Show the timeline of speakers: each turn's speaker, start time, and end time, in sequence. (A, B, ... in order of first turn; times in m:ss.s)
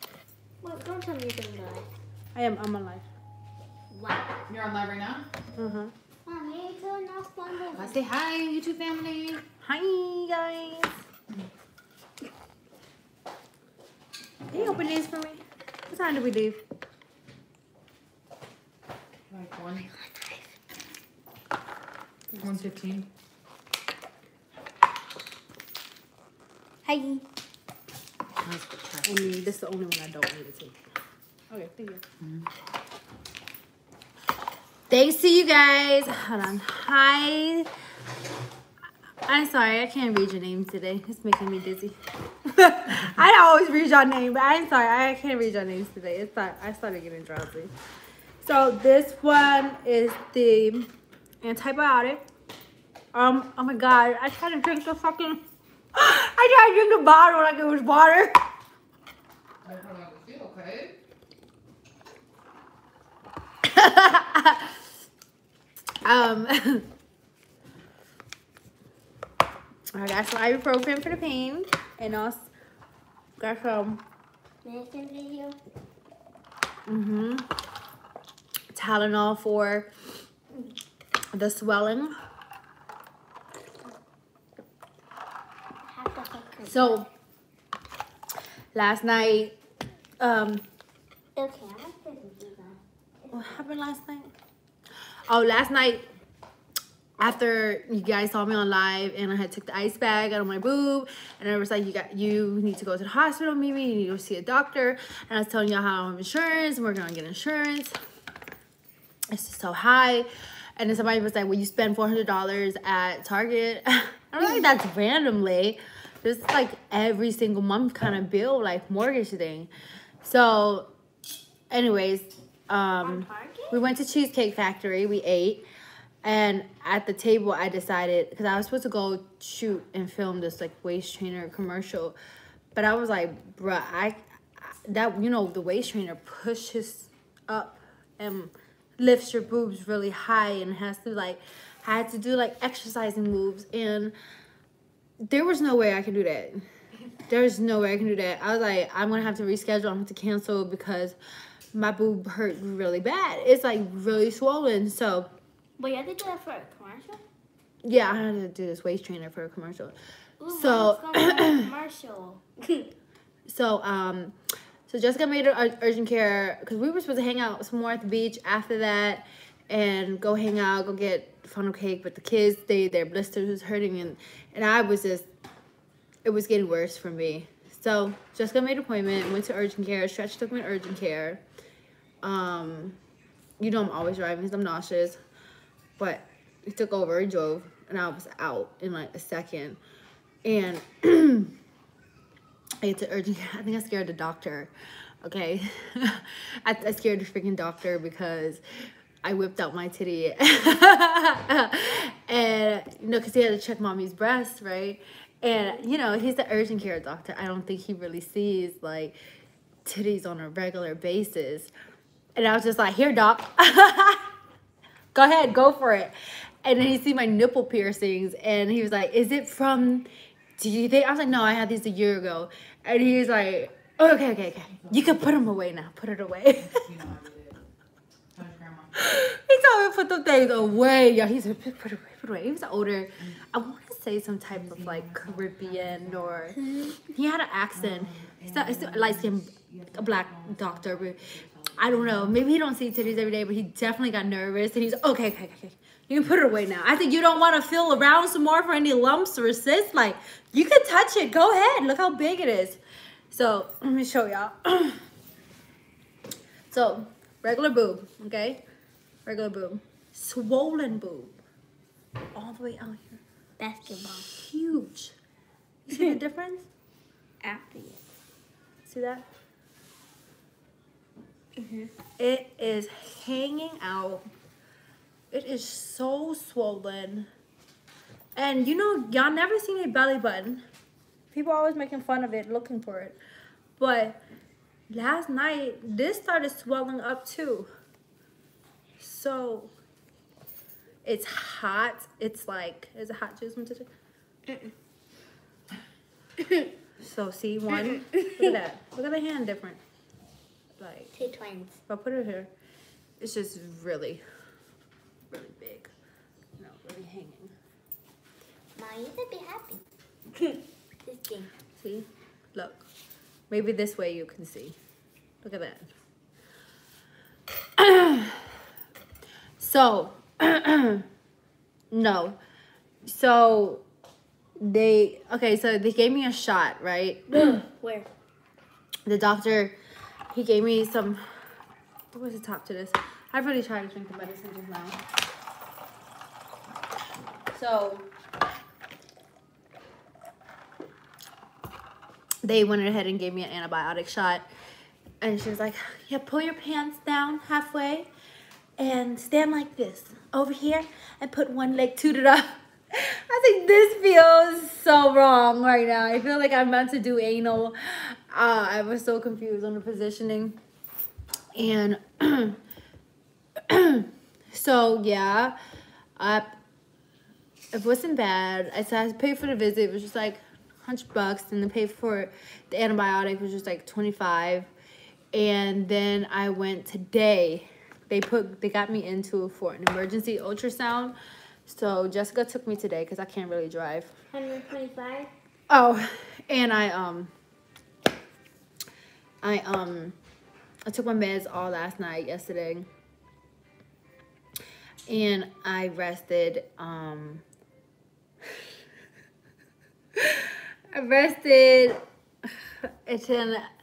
0:00.6-0:01.9 A
0:02.3-0:03.0 B
0:03.9-0:04.4 A
0:04.5-0:05.3 C
0:05.5-0:05.9 B
0:06.2-0:08.0 A
0:07.7-0:09.5 C
0:09.6-0:10.9 B
0:14.5-0:16.6 B
0:19.3-0:19.9 C
0:20.0-0:20.4 A
0:22.4-0:23.1 C
0:26.8-0:27.2 B
0:28.4-0:29.1 C
0:29.0-0:30.8 B
0:31.5-0:32.0 B
0:32.2-0:32.5 C
0:34.9-0:37.7 B
0:39.3-0:42.0 B
0:42.5-0:47.7 B
0:48.4-0:52.2 B
0:53.1-0:58.4 B
0:59.6-1:01.0 C
1:03.7-1:04.7 B
1:06.0-1:06.9 B
1:09.9-1:12.5 B
1:13.4-1:14.0 B
1:14.6-1:15.6 A
1:16.9-1:17.5 B
1:18.7-1:19.9 B
1:21.3-1:22.2 B
1:25.8-1:27.0 A
1:26.6-1:27.1 B
1:28.7-1:29.6 B
1:30.2-1:30.6 B
1:31.4-1:33.5 A
1:33.3-1:34.3 B
1:35.3-1:36.1 B
1:37.2-1:48.0 B
1:49.3-1:59.7 B
1:54.4-1:54.8 A
2:00.2-2:00.9 B
2:01.7-2:05.6 B
2:03.0-2:03.8 A
2:06.2-2:12.2 B
2:12.7-2:24.1 B
2:25.2-2:26.6 B
2:27.3-2:31.2 B
2:31.7-2:35.3 B
2:35.8-2:37.2 A
2:37.8-2:39.9 B
2:40.4-2:42.9 A
2:40.5-2:41.7 B
2:43.5-2:44.4 B
2:44.9-2:55.3 B
2:56.2-3:01.4 B
3:02.2-3:03.0 B
3:03.6-3:05.2 B
3:06.0-3:09.8 B
3:10.4-3:11.5 B
3:12.8-3:14.7 B
3:15.2-3:18.6 B
3:19.2-3:29.2 B
3:29.8-3:31.7 B
3:32.4-3:34.2 B
3:35.1-3:46.8 B
3:44.8-3:45.2 C
3:46.6-3:47.6 C
3:48.3-3:48.9 C
3:49.0-3:56.6 B
3:54.5-3:56.5 C
3:56.6-3:57.0 A
3:57.1-4:01.2 B
3:57.7-4:02.4 C
4:01.8-4:12.8 B
4:13.3-4:15.0 B
4:16.7-4:18.6 B
4:19.2-4:21.3 B
4:22.3-4:23.2 B
4:23.6-4:24.3 A
4:24.2-4:25.1 B
4:25.9-4:26.7 B
4:27.4-4:28.0 A
4:28.9-4:29.2 B
4:31.6-4:31.9 A
4:32.2-4:34.2 B
4:35.3-4:37.3 B
4:38.4-4:40.6 B
4:41.3-4:43.2 B
4:43.8-4:44.2 B
4:44.9-4:47.7 B
4:49.0-4:49.7 B
4:51.0-4:53.9 B
4:54.5-4:54.7 A
4:56.4-4:56.7 A
4:57.0-4:59.8 B
4:58.0-4:58.5 A
5:00.8-5:01.1 B
5:01.1-5:01.8 A
5:01.9-5:02.5 B
5:03.2-5:04.2 B
5:05.3-5:05.9 B
5:06.6-5:07.5 B
5:08.8-5:09.8 A
5:10.4-5:11.5 A
5:11.8-5:12.8 B
5:13.5-5:14.8 B
5:15.4-5:15.9 B
5:17.8-5:18.5 B
5:19.6-5:21.0 B
5:21.9-5:22.4 B
5:23.1-5:23.8 B
5:24.6-5:27.6 B
5:27.3-5:28.1 A
5:29.1-5:29.8 B
5:30.3-5:31.2 B
5:32.1-5:35.0 B
5:37.5-5:38.1 B
5:42.4-5:44.5 B
5:45.2-5:48.1 B
5:48.8-6:00.6 B
6:01.6-6:02.6 B
6:03.7-6:05.6 B
6:06.2-6:06.6 B
6:07.7-6:14.7 B
6:15.3-6:24.1 B
6:24.3-6:25.3 A
6:25.7-6:27.3 B
6:29.4-6:30.2 B
6:30.9-6:32.9 B
6:35.1-6:37.4 B
6:40.2-6:42.0 B
6:42.8-6:43.7 B